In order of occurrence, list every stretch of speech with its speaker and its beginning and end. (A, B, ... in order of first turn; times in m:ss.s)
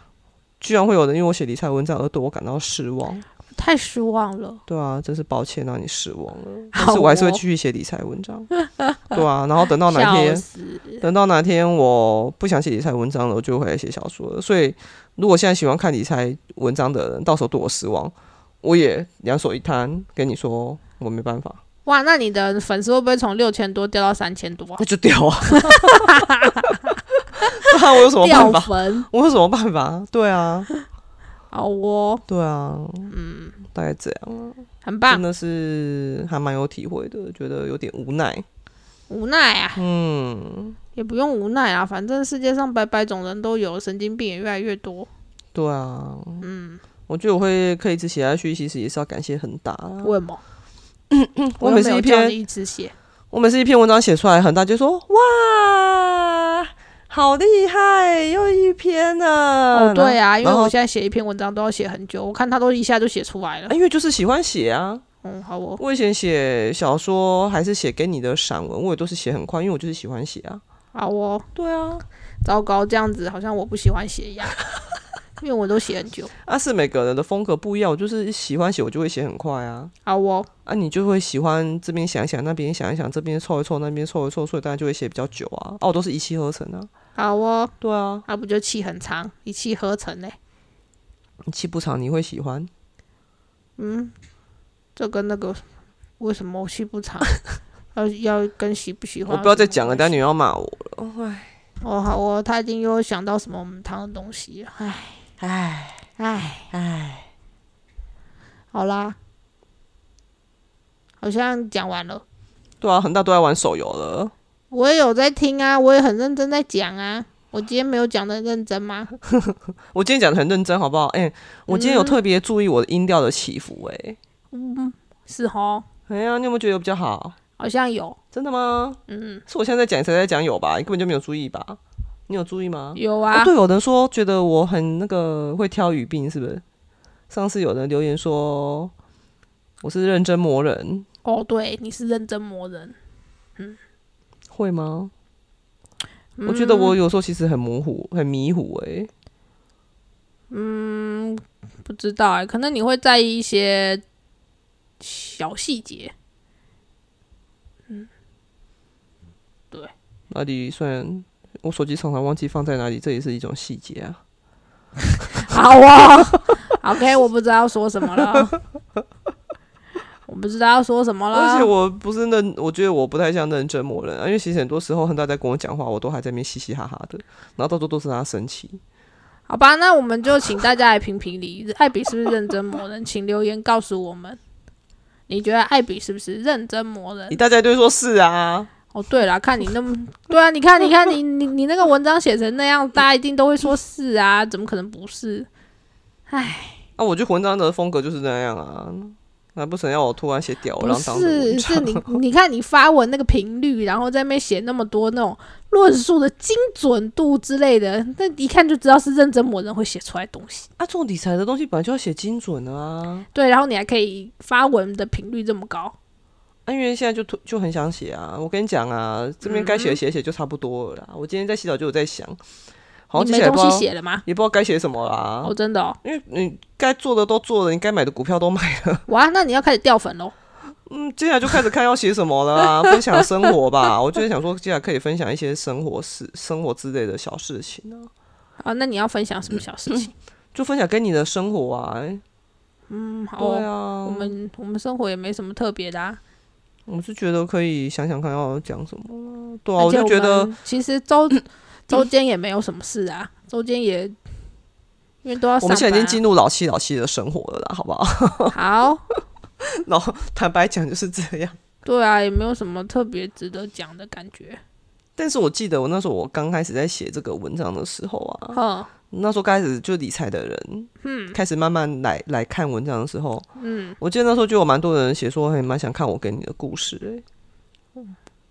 0:00.6-0:03.2 A
0:03.5-0:04.6 B
0:04.7-0:08.5 A
0:06.7-0:07.4 B
0:08.8-0:09.2 B
0:09.1-0:10.4 A
0:09.8-0:11.0 B
0:11.0-0:21.6 A
0:21.8-0:24.8 B
0:24.8-0:27.0 A
0:25.5-0:26.8 B
0:27.4-0:29.1 B
0:27.5-0:30.7 A
0:31.5-0:32.2 B
0:32.3-0:33.1 A
0:33.1-0:33.6 B
0:33.7-0:38.4 A
0:34.8-0:35.2 B
0:39.1-0:39.8 B
0:39.8-0:40.8 A
0:41.0-0:45.1 B
0:45.5-0:46.4 A
0:46.4-0:46.8 B
0:47.1-0:50.1 A
0:50.0-0:50.4 B
0:51.1-0:52.4 A
0:51.6-0:52.9 B
0:53.3-1:00.7 A
0:59.7-1:03.7 B
1:03.7-1:05.0 A
1:05.2-1:05.8 B
1:05.8-1:10.6 A
1:10.9-1:11.5 B
1:11.5-1:12.0 A
1:12.4-1:14.6 B
1:15.4-1:16.3 B
1:16.4-1:19.9 A
1:20.0-1:20.5 B
1:20.6-1:26.9 A
1:27.2-1:27.7 B
1:27.8-1:28.2 A
1:28.3-1:30.4 B
1:31.5-1:32.7 A
1:33.8-1:34.1 B
1:35.0-1:35.6 B
1:36.2-1:37.3 B
1:37.9-1:40.1 B
1:39.3-1:41.5 A
1:41.8-1:45.2 B
1:45.4-1:46.1 A
1:46.2-1:46.7 B
1:46.7-1:47.3 A
1:48.7-1:49.2 B
1:51.2-1:52.2 B
1:52.8-1:54.3 A
1:54.7-1:59.1 B
1:59.3-2:04.2 A
2:01.7-2:02.2 B
2:04.5-2:05.8 B
2:06.1-2:07.4 A
2:07.6-2:08.2 B
2:08.3-2:16.6 A
2:09.1-2:09.4 B
2:12.9-2:13.5 B
2:17.3-2:18.9 A
2:19.8-2:21.0 A
2:21.2-2:23.0 B
2:24.5-2:25.1 A
2:26.4-2:27.0 B
2:26.4-2:29.1 A
2:30.5-2:34.0 B
2:35.0-2:36.1 B
2:40.3-2:44.2 A
2:45.3-2:48.6 B
2:50.3-2:51.7 B
2:51.3-2:58.8 A
2:59.5-3:04.4 B
3:05.3-3:07.4 B
3:07.3-3:08.7 A
3:08.9-3:15.5 B
3:16.3-3:16.8 B
3:17.0-3:22.1 A
3:20.8-3:30.7 B
3:30.8-3:33.3 A
3:33.3-3:35.9 B
3:36.7-3:42.4 A
3:39.4-3:40.0 B
3:43.1-3:45.5 A
3:43.2-3:44.2 B
3:45.4-3:46.0 B
3:46.0-3:49.0 A
3:49.1-3:50.3 B
3:50.9-3:58.1 A
3:58.6-4:00.1 B
4:00.5-4:02.2 A
4:02.9-4:06.2 B
4:03.4-4:04.3 A
4:06.9-4:10.5 A
4:09.8-4:14.2 B
4:15.2-4:16.2 B
4:15.6-4:18.6 A
4:18.5-4:19.0 B
4:19.6-4:21.6 A
4:21.8-4:24.6 B
4:25.2-4:33.4 A
4:28.5-4:28.9 B
4:31.0-4:31.4 B
4:33.6-4:34.0 B
4:34.0-4:37.2 A